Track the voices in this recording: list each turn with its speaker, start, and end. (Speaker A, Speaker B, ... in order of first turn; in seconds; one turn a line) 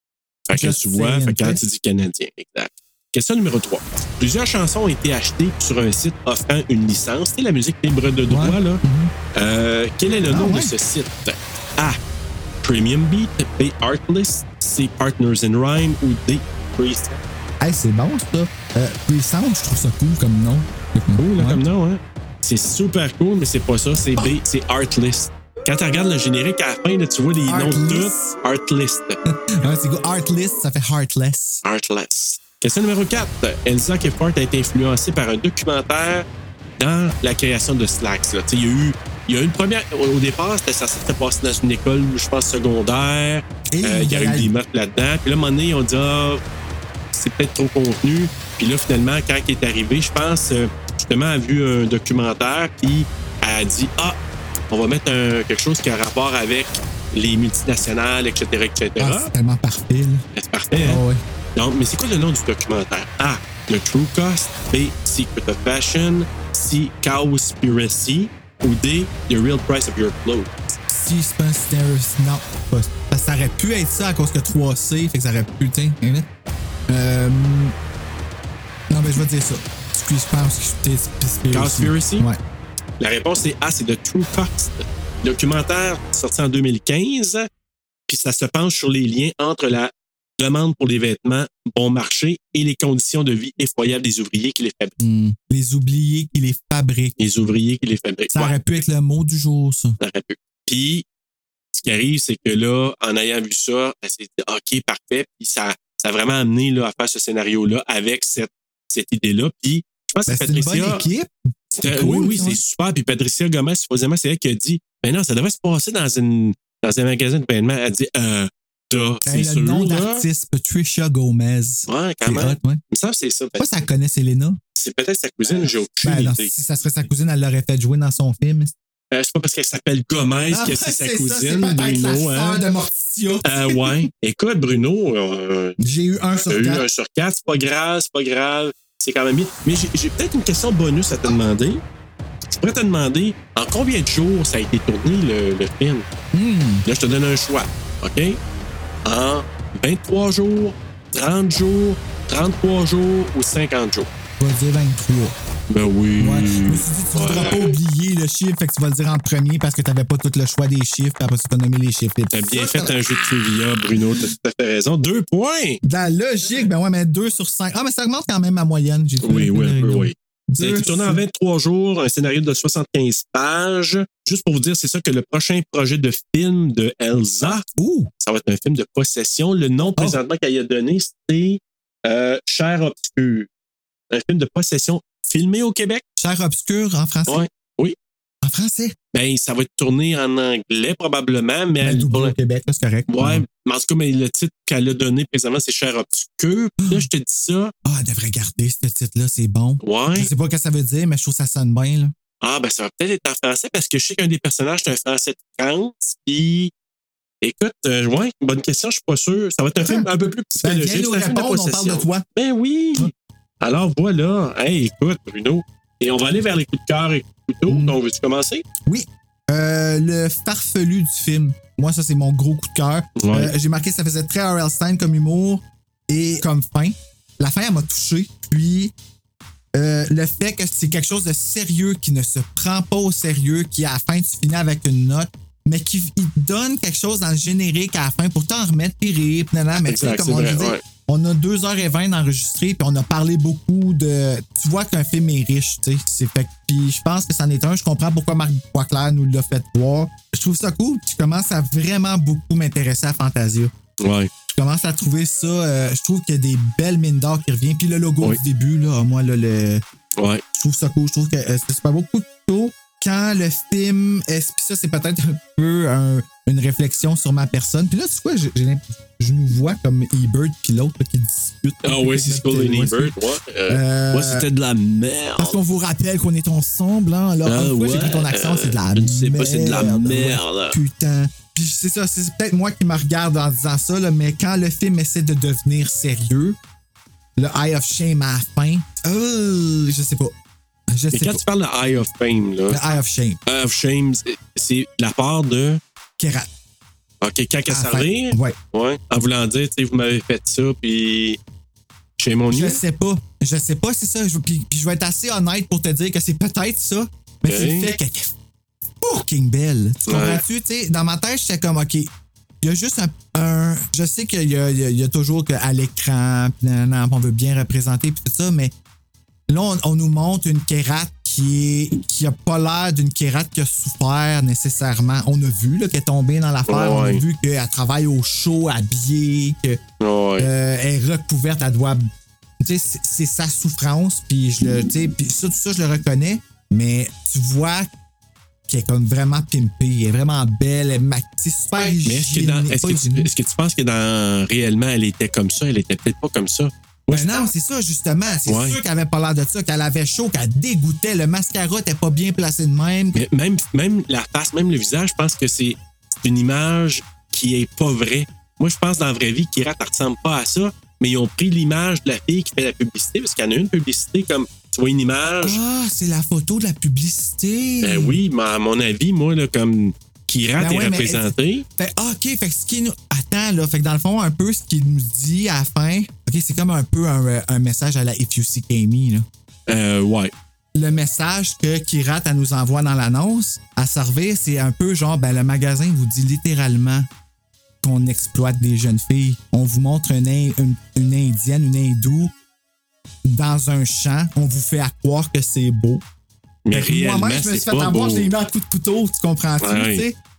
Speaker A: 0.5-8.8
Speaker B: 0.5-1.6
Speaker B: 8.3-9.1
Speaker A: 9.3-12.0
Speaker B: 10.3-10.7
Speaker A: 12.6-17.2
Speaker B: 17.6-21.6
Speaker A: 21.2-29.2
Speaker B: 27.5-28.4
Speaker B: 29.3-31.6
Speaker A: 31.6-36.3
Speaker A: 36.8-46.4
Speaker B: 43.7-44.5
Speaker A: 47.1-54.2
Speaker A: 54.7-59.3
Speaker B: 59.0-60.2
Speaker A: 60.3-61.0
Speaker B: 60.8-61.2
Speaker A: 61.6-70.8
Speaker B: 70.9-76.3
Speaker B: 76.9-77.8
Speaker B: 78.9-82.4
Speaker A: 81.5-82.3
Speaker A: 83.0-87.5
Speaker A: 88.1-95.0
Speaker B: 95.0-97.2
Speaker A: 97.2-98.6
Speaker B: 98.3-100.0
Speaker A: 100.0-101.0
Speaker A: 101.7-111.0
Speaker B: 110.3-112.6
Speaker A: 111.8-120.2
Speaker B: 119.3-122.8
Speaker A: 121.9-123.7
Speaker B: 123.6-124.6
Speaker A: 124.8-126.5
Speaker B: 125.5-128.7
Speaker A: 129.1-132.6
Speaker B: 130.5-134.1
Speaker A: 133.4-135.8
Speaker B: 135.8-136.8
Speaker A: 136.4-141.8
Speaker A: 142.5-146.1
Speaker B: 146.3-146.9
Speaker A: 146.9-148.4
Speaker A: 149.1-154.1
Speaker B: 154.4-155.4
Speaker A: 155.7-157.7
Speaker B: 156.2-163.0
Speaker A: 162.3-165.8
Speaker B: 165.8-171.2
Speaker A: 169.2-177.7
Speaker B: 177.7-178.1
Speaker A: 178.2-183.5
Speaker A: 184.1-186.0
Speaker B: 186.2-187.5
Speaker A: 187.3-187.9
Speaker B: 188.4-189.0
Speaker A: 189.1-192.3
Speaker B: 191.8-193.5
Speaker A: 193.1-197.7
Speaker B: 197.8-202.1
Speaker A: 199.8-200.3
Speaker A: 202.4-206.7
Speaker A: 207.4-218.7
Speaker B: 209.8-212.2
Speaker B: 217.7-218.0
Speaker B: 218.9-228.9
Speaker A: 223.2-223.5
Speaker B: 229.7-253.7
Speaker A: 239.8-240.8
Speaker A: 254.0-254.3
Speaker B: 254.5-259.8
Speaker A: 260.2-260.4
Speaker B: 260.5-274.5
Speaker A: 271.8-275.6
Speaker B: 275.4-286.6
Speaker A: 277.5-280.8
Speaker B: 287.4-290.3
Speaker B: 290.9-291.4
Speaker A: 291.1-292.8
Speaker B: 292.7-293.4
Speaker A: 293.5-295.8
Speaker B: 296.2-296.5
Speaker A: 297.2-301.4
Speaker B: 297.7-298.6
Speaker A: 302.2-302.8
Speaker B: 302.5-308.3
Speaker A: 307.5-307.9
Speaker B: 309.0-312.1
Speaker A: 310.1-310.4
Speaker B: 312.6-318.7
Speaker B: 319.5-329.8
Speaker A: 326.7-327.2
Speaker A: 330.0-330.5
Speaker B: 330.4-332.1
Speaker B: 332.6-337.9
Speaker B: 338.7-343.3
Speaker A: 342.1-347.3
Speaker B: 347.1-353.2
Speaker A: 348.5-348.8
Speaker A: 353.1-365.6
Speaker B: 365.4-368.2
Speaker A: 367.8-371.6
Speaker B: 370.6-379.3
Speaker A: 379.7-380.3
Speaker B: 380.7-387.1
Speaker B: 387.8-392.3
Speaker B: 393.2-396.0
Speaker A: 396.7-398.3
Speaker B: 396.7-400.2
Speaker A: 399.6-400.1